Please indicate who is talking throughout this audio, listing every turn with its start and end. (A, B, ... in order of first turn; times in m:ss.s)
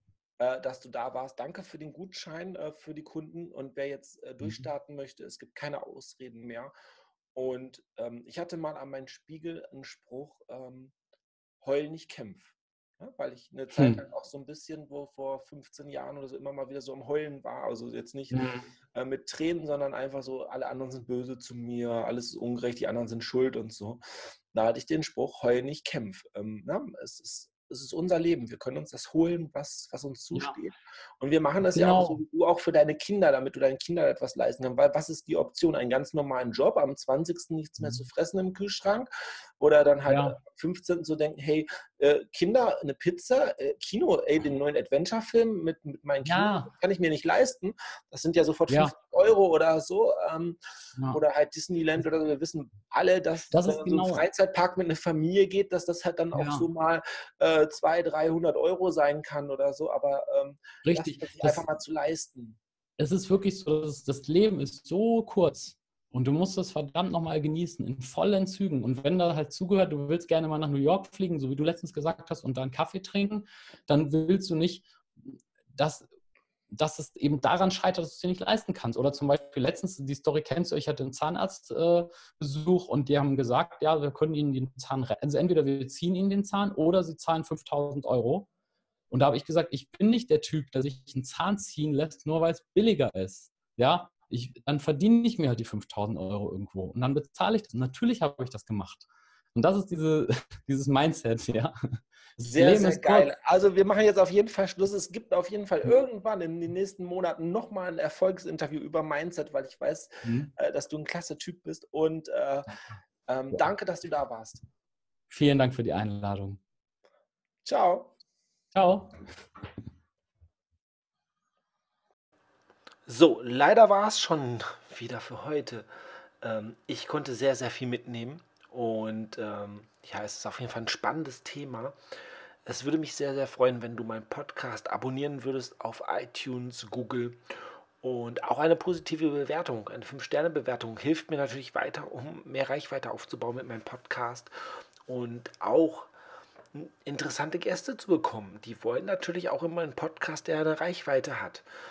0:00.4-0:06.7 A
0:04.4-0:04.7 B
0:07.3-0:10.9 A
0:11.6-0:18.4 A
0:18.3-0:18.6 B
0:18.9-0:24.0 A
0:24.5-0:39.1 A
0:31.7-0:32.2 B
0:39.6-0:50.6 A
0:40.1-0:40.4 B
0:46.2-0:46.7 B
0:51.1-1:02.6 A
0:53.5-0:54.2 B
0:56.3-0:56.7 B
1:00.8-1:01.6 B
1:03.0-1:16.1 B
1:16.7-1:28.5 B
1:29.1-1:43.3 B
1:42.4-1:52.7 A
1:50.2-1:50.5 B
1:53.3-1:54.6 A
1:55.3-1:56.6 B
1:57.6-1:58.1 A
1:58.7-1:59.1 B
2:03.1-2:05.9 A
2:06.4-2:12.0 A
2:12.6-2:17.4 A
2:18.0-2:24.5 A
2:25.1-2:26.1 A
2:26.7-2:31.6 A